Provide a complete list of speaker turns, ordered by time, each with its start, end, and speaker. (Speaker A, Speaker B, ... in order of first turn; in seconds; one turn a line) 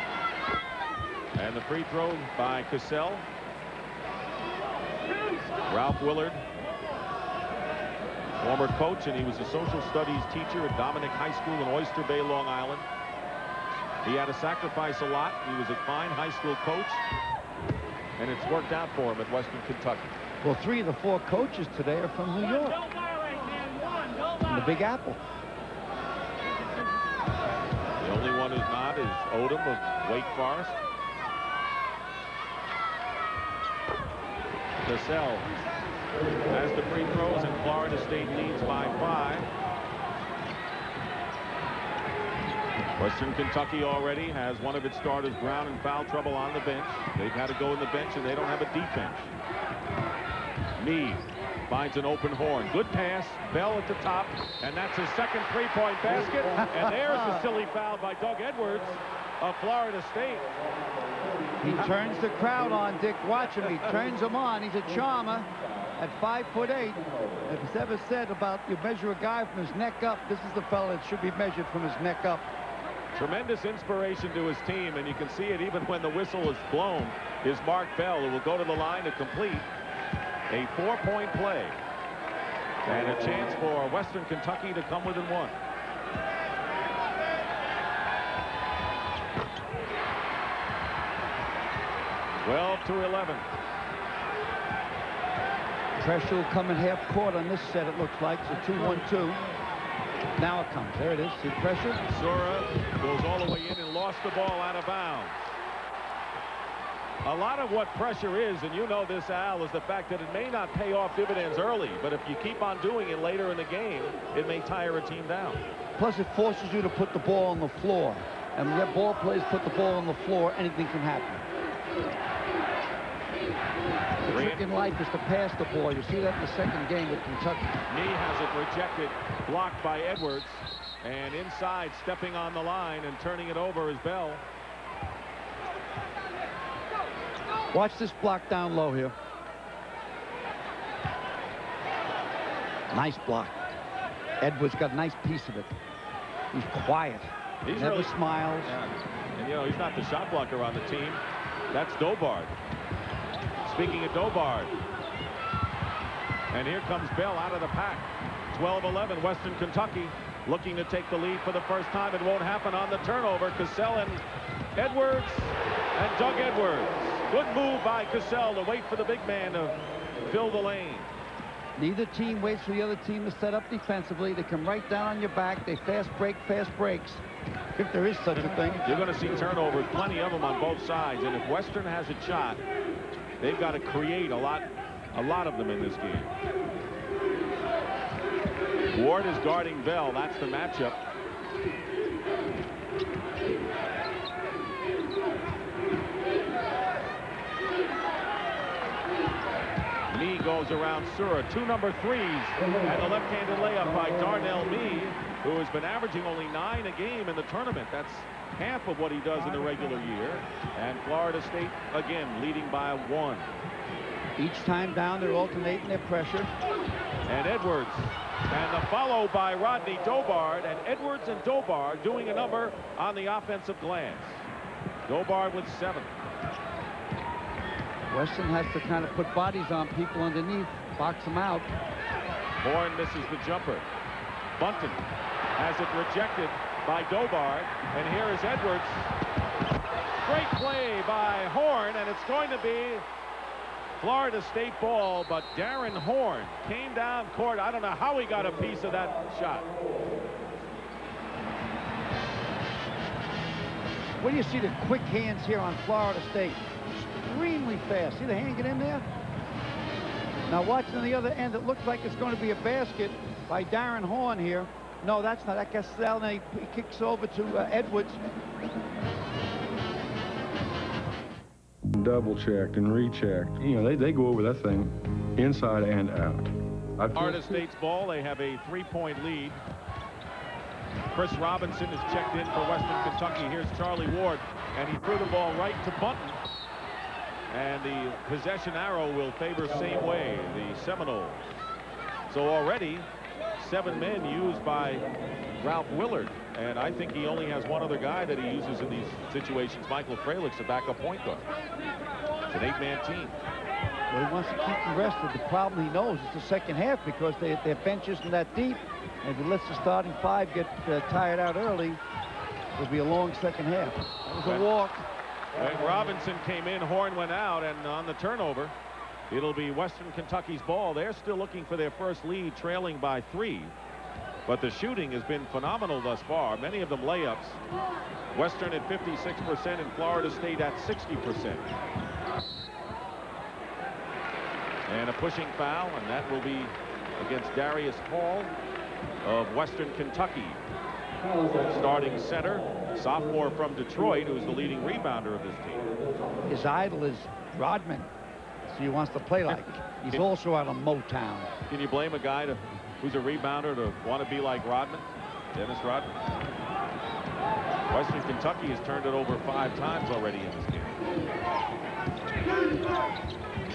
Speaker A: 1.3-3.2
Speaker A: 5.7-6.4
Speaker A: 8.4-12.8
Speaker A: 14.0-17.1
Speaker A: 18.2-20.1
Speaker B: 20.4-22.8
Speaker B: 24.5-25.2
Speaker A: 28.0-30.8
Speaker A: 34.8-35.5
Speaker A: 36.5-39.5
Speaker A: 43.0-49.3
Speaker A: 50.8-60.5
Speaker B: 56.6-57.5
Speaker B: 61.6-72.5
Speaker A: 73.1-79.7
Speaker A: 80.5-81.8
Speaker A: 82.8-85.5
Speaker A: 92.4-93.4
Speaker B: 96.0-99.4
Speaker B: 100.4-102.0
Speaker A: 102.1-105.5
Speaker A: 107.2-115.6
Speaker B: 116.0-121.4
Speaker B: 124.2-127.8
Speaker A: 124.3-124.7
Speaker A: 127.9-134.4
Speaker B: 137.7-139.1
Speaker B: 142.9-143.6
Speaker B: 144.4-145.7
Speaker B: 146.5-148.7
Speaker A: 147.6-151.2
Speaker A: 151.7-152.5
Speaker A: 153.6-154.8
Speaker A: 156.5-164.2
Speaker A: 164.8-171.1
Speaker B: 171.8-177.2
Speaker B: 177.7-178.9
Speaker A: 178.8-182.6
Speaker A: 183.4-186.3
Speaker A: 188.9-191.0
Speaker A: 200.1-213.5
Speaker B: 214.4-216.5
Speaker A: 217.3-224.4
Speaker A: 225.1-226.1
Speaker B: 228.1-231.7
Speaker A: 232.6-233.8
Speaker A: 234.6-235.0
Speaker A: 235.6-239.1
Speaker A: 240.2-243.0
Speaker A: 244.0-249.7
Speaker B: 254.2-259.1
Speaker B: 260.5-268.2
Speaker C: 271.9-277.6
Speaker A: 277.1-279.6
Speaker A: 281.1-286.4
Speaker A: 287.5-291.7
Speaker A: 292.3-295.0
Speaker A: 295.6-301.4
Speaker A: 302.5-303.4
Speaker B: 304.1-312.0
Speaker B: 312.8-315.1
Speaker A: 314.4-314.7
Speaker A: 315.5-318.7
Speaker A: 319.3-323.7
Speaker A: 324.4-327.6
Speaker A: 328.3-331.7
Speaker A: 334.9-338.5
Speaker A: 339.2-340.6
Speaker A: 341.5-345.9
Speaker B: 346.4-348.1
Speaker B: 348.6-351.5
Speaker A: 349.5-350.2
Speaker A: 351.7-356.1
Speaker A: 357.9-361.0